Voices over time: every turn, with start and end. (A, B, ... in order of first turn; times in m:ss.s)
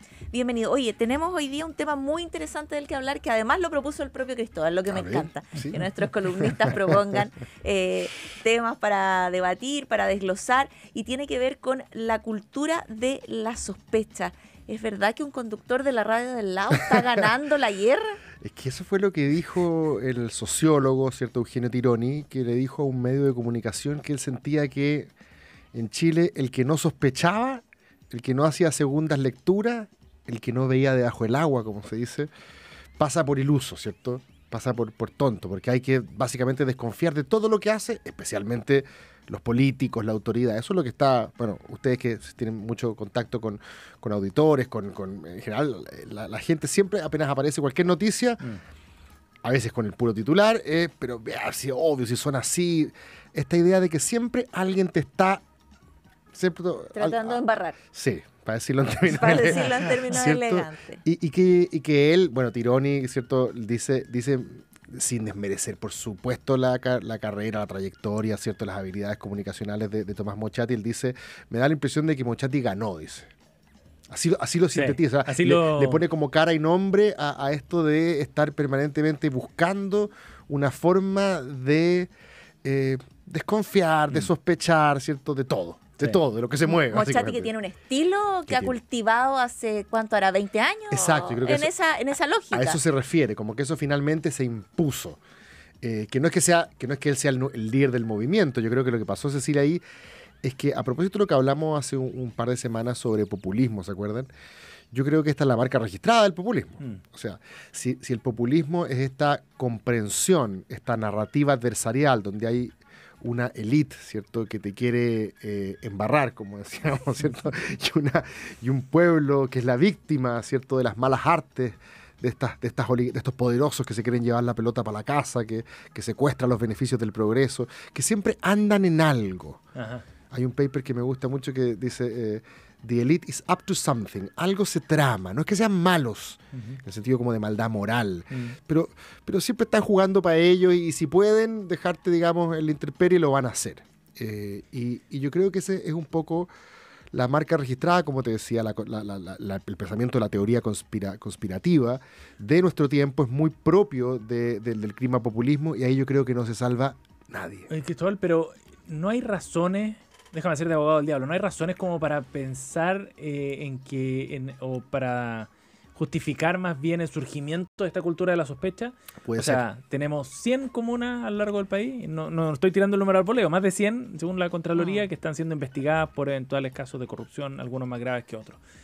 0:00.3-0:18.2 A
0:04.9-0:07.0 B
0:18.4-0:25.1 B
0:25.7-0:32.3 B
0:33.0-0:48.4 B
0:49.4-0:55.4 B
0:56.3-1:13.3 B
0:56.9-0:57.8 A
0:59.1-1:01.0 A
1:14.1-1:22.1 B
1:14.7-1:16.0 C
1:22.6-1:27.5 B
1:26.7-1:32.8 A
1:28.5-1:28.8 B
1:30.9-1:31.7 B
1:32.5-1:35.2 B
1:35.8-1:39.8 B
1:40.4-1:44.3 B
1:44.9-2:09.6 B
2:09.8-2:10.0 C
2:10.3-2:26.5 B
2:16.5-2:16.8 C
2:18.3-2:18.6 C
2:27.1-2:37.7 B
2:37.7-2:58.6 C
2:49.2-2:49.6 B
2:54.8-2:55.0 A